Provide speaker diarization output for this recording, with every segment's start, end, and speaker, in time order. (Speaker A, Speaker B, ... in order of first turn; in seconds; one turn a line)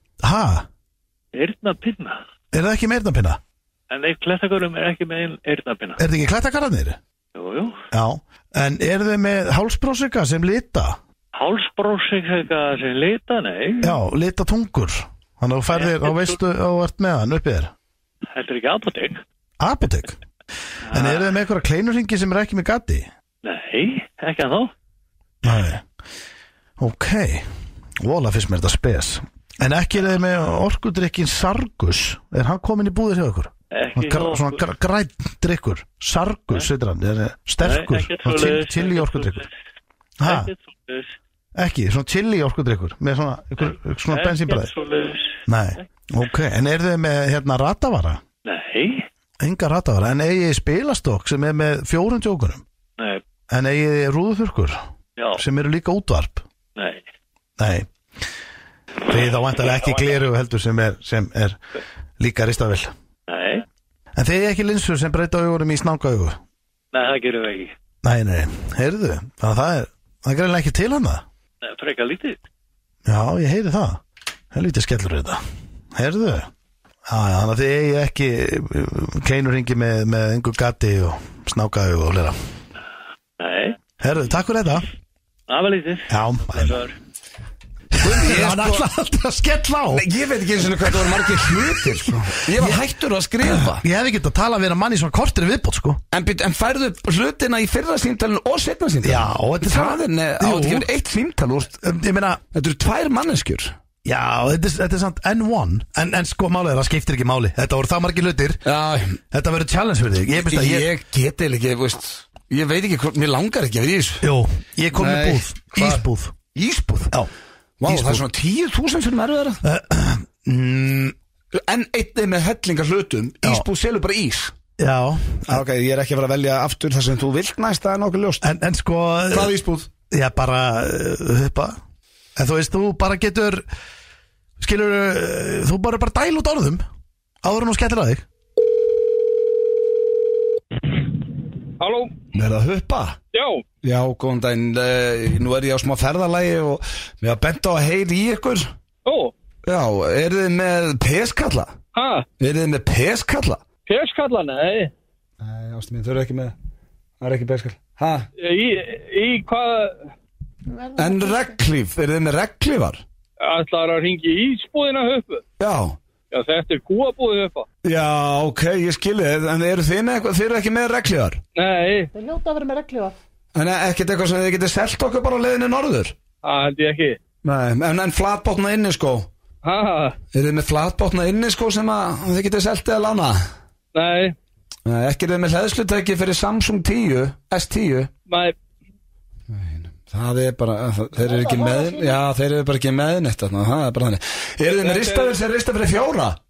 Speaker A: 0.2-0.7
Speaker B: 1.3-2.2
Speaker A: 2.5-3.4
Speaker B: 3.9-6.0
Speaker A: 6.0-7.0
Speaker B: 7.3-7.7
Speaker A: 7.9-11.0
Speaker B: 11.3-14.0
Speaker A: 13.8-17.7
Speaker B: 15.7-16.3
Speaker B: 18.3-19.2
Speaker A: 19.6-20.1
Speaker B: 20.9-21.2
Speaker A: 20.9-23.1
Speaker B: 23.4-24.7
Speaker A: 25.4-25.8
Speaker A: 26.8-27.5
Speaker A: 28.0-39.4
Speaker B: 33.7-34.6
Speaker B: 37.6-39.5
Speaker A: 40.2-40.5
Speaker B: 40.2-41.1
Speaker A: 41.5-44.7
Speaker B: 43.6-45.3
Speaker A: 45.5-48.2
Speaker B: 48.4-49.0
Speaker A: 49.4-52.6
Speaker A: 53.5-54.8
Speaker A: 55.3-56.4
Speaker B: 56.8-57.0
Speaker A: 57.6-57.9
Speaker A: 59.1-61.6
Speaker A: 62.2-62.9
Speaker B: 63.3-63.6
Speaker A: 64.1-66.4
Speaker B: 66.9-67.7
Speaker A: 68.0-71.2
Speaker B: 71.6-72.4
Speaker A: 73.0-74.0
Speaker A: 74.5-75.4
Speaker A: 75.9-76.5
Speaker A: 77.1-82.4
Speaker B: 83.4-83.8
Speaker A: 84.0-84.8
Speaker B: 85.5-86.9
Speaker A: 86.1-86.8
Speaker A: 87.9-90.1
Speaker C: 88.0-88.8
Speaker C: 89.9-93.8
Speaker A: 90.8-92.8
Speaker A: 93.4-96.0
Speaker C: 96.1-101.8
Speaker A: 99.0-100.9
Speaker A: 101.8-102.4
Speaker C: 102.5-103.7
Speaker A: 104.0-108.6
Speaker C: 108.6-109.2
Speaker A: 109.3-110.9
Speaker C: 110.4-114.3
Speaker A: 114.2-116.3
Speaker C: 114.9-117.1
Speaker C: 117.8-119.6
Speaker A: 117.8-118.2
Speaker A: 119.6-121.1
Speaker C: 121.5-124.5
Speaker A: 124.8-125.6
Speaker C: 125.5-128.5
Speaker A: 128.4-129.5
Speaker C: 129.3-129.9
Speaker A: 130.1-131.8
Speaker A: 132.3-133.6
Speaker A: 134.6-136.8
Speaker A: 137.4-138.2
Speaker D: 141.8-142.1
Speaker C: 142.3-143.2
Speaker D: 143.3-143.6
Speaker C: 143.8-148.7
Speaker D: 149.1-149.3
Speaker C: 149.7-151.8
Speaker D: 151.9-152.2
Speaker C: 152.4-153.6
Speaker D: 153.9-154.9
Speaker C: 155.4-156.5
Speaker C: 157.2-158.3
Speaker D: 158.4-160.1
Speaker E: 160.7-161.6
Speaker C: 161.0-163.0
Speaker D: 163.4-165.4
Speaker C: 165.6-166.0
Speaker D: 166.3-167.7
Speaker C: 167.8-171.4
Speaker D: 171.6-172.1
Speaker E: 172.1-173.1
Speaker C: 173.5-176.1
Speaker D: 176.4-177.2
Speaker C: 177.4-179.3
Speaker D: 179.6-180.2
Speaker C: 180.3-183.4
Speaker D: 183.9-184.3
Speaker C: 184.8-188.1
Speaker D: 188.3-188.5
Speaker C: 189.5-196.4
Speaker E: 191.2-192.2
Speaker D: 194.8-195.3